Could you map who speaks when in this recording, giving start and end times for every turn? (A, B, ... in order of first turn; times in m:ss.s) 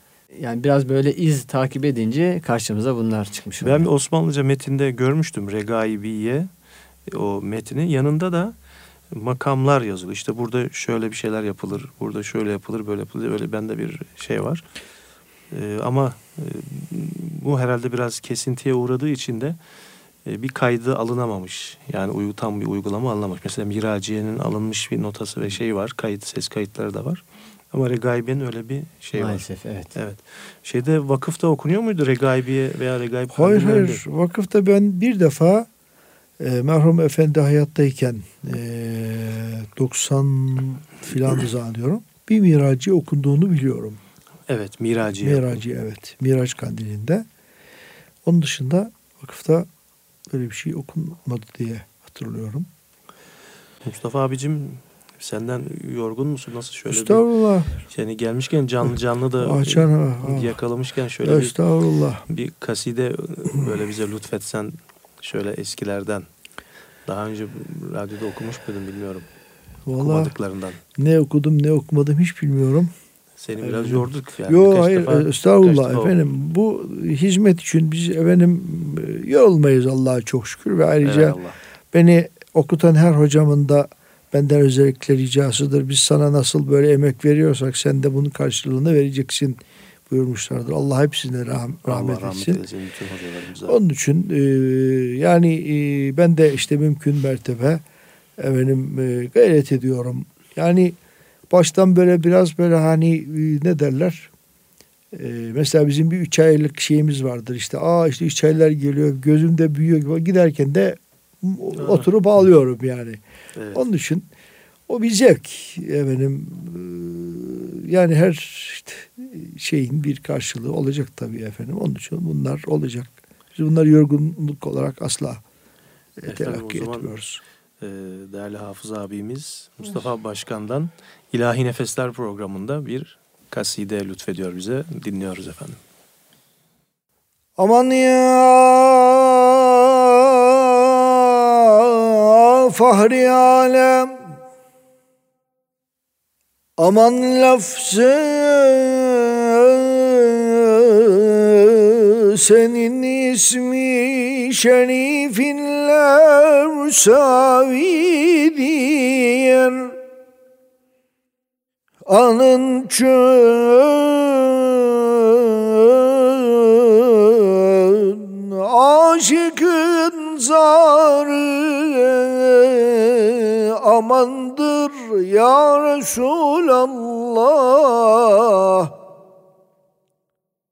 0:00.3-0:03.9 A
0:03.6-0:06.5 B
0:07.1-0:08.5 B
0:09.1-0:14.6 B
0:15.5-0:19.6 B
0:20.2-0:34.0 B
0:29.1-0:29.9 A
0:33.3-0:35.7 C
0:36.4-0:44.0 C
0:44.5-0:45.6 B
0:45.2-0:47.2 C
0:48.2-0:49.7 C
0:50.3-0:52.7 C
0:53.8-0:57.2 B
0:56.9-0:57.8 C
0:57.9-1:01.5 B
0:59.4-1:00.6 C
1:01.2-1:02.2 C
1:02.3-1:06.3 B
1:07.0-1:09.2 B
1:09.8-1:10.3 C
1:10.0-1:10.8 B
1:11.0-1:12.9 C
1:13.4-1:16.2 B
1:13.6-1:21.4 C
1:21.0-1:21.6 B
1:21.9-1:32.6 C
1:31.8-1:33.8 B
1:33.6-1:37.8 C
1:38.4-1:41.0 C
1:41.5-1:44.3 C
1:45.1-1:53.2 C
1:51.8-1:52.1 B
1:53.6-1:53.8 B
1:53.7-1:54.3 C
1:54.9-2:05.4 C
2:06.2-2:07.4 C
2:06.3-2:07.1 B
2:07.8-2:15.8 B
2:17.6-2:24.3 C
2:26.8-2:39.9 C
2:42.0-2:58.9 C